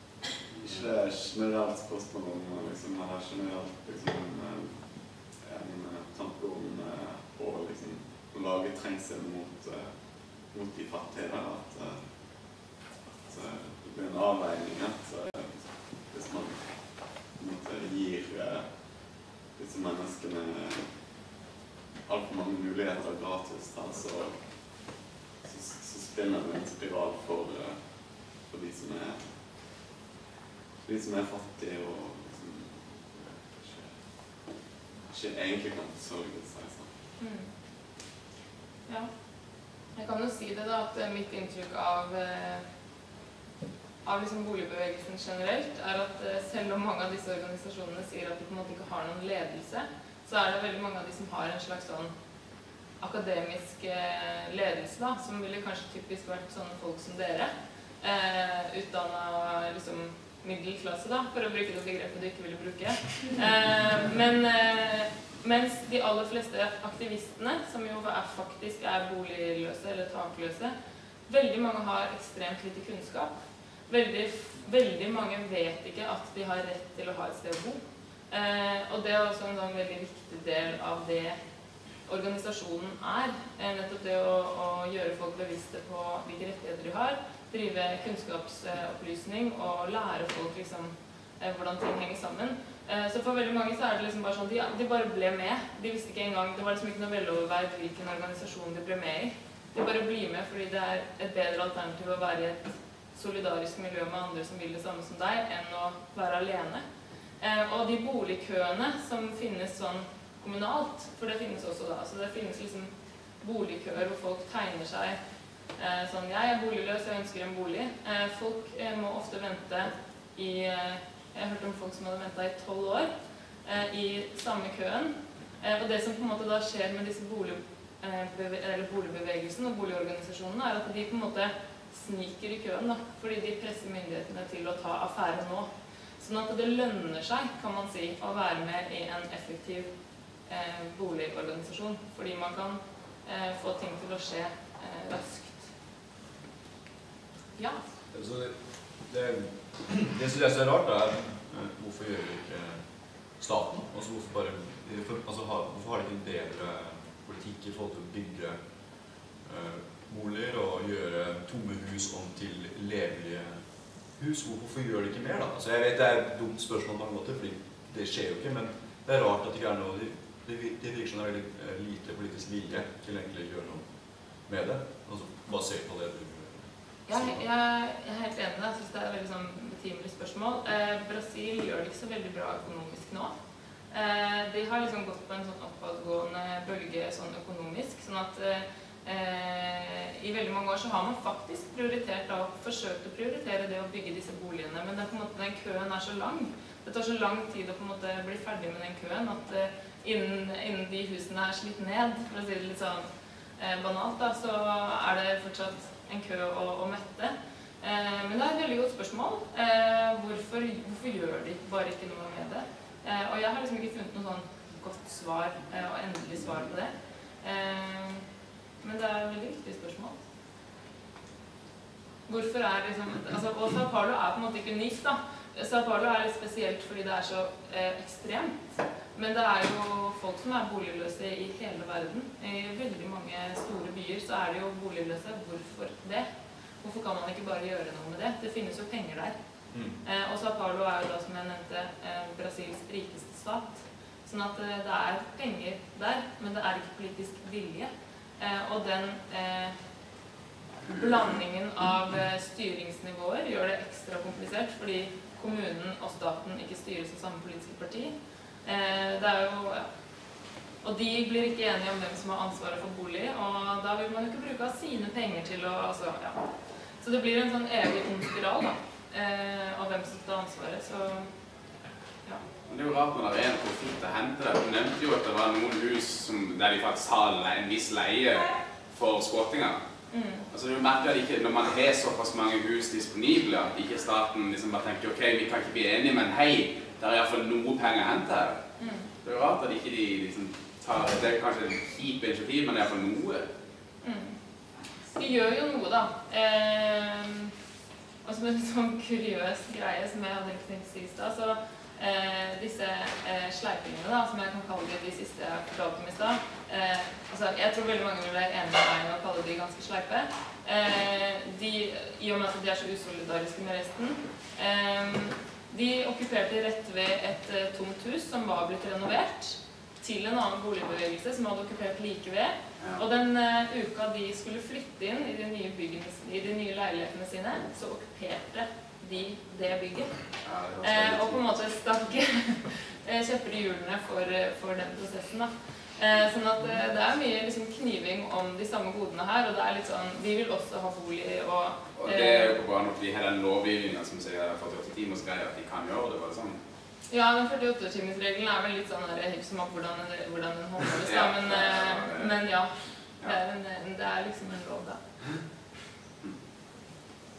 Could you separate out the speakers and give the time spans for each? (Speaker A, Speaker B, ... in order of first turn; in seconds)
Speaker A: 0.5-4.8, 5.4-9.9, 10.5-12.0, 13.2-16.8, 17.4-18.7, 19.6-20.9, 22.0-24.4, 25.4-27.8, 28.4-29.3, 30.8-34.0, 35.0-36.9
Speaker B: 37.2-37.5, 39.9-42.6, 44.0-52.1, 53.0-57.5, 58.0-70.7, 71.3-73.3, 73.9-81.3, 82.1-106.8, 107.4-115.2, 115.8-123.1, 123.6-135.7, 136.2-139.9, 140.5-145.7, 147.6-147.8, 177.1-183.3, 183.9-203.1, 203.6-218.2, 218.8-220.2, 222.3-228.6, 229.1-236.2, 236.8-239.3, 240.0-249.7, 250.8-258.1, 258.6-259.9, 260.8-266.4, 267.0-271.3, 280.1-280.4, 288.8-289.1, 294.0-294.4, 295.1-297.5, 298.2-330.1, 330.8-342.6, 347.1-355.0
Speaker C: 148.1-152.8, 153.4-158.6, 159.4-163.6, 164.1-173.9, 174.4-177.4, 239.7-240.0
Speaker D: 272.7-279.8, 280.5-288.6, 289.2-293.5, 322.8-323.0, 330.4-331.5, 341.9-346.6, 351.0-352.4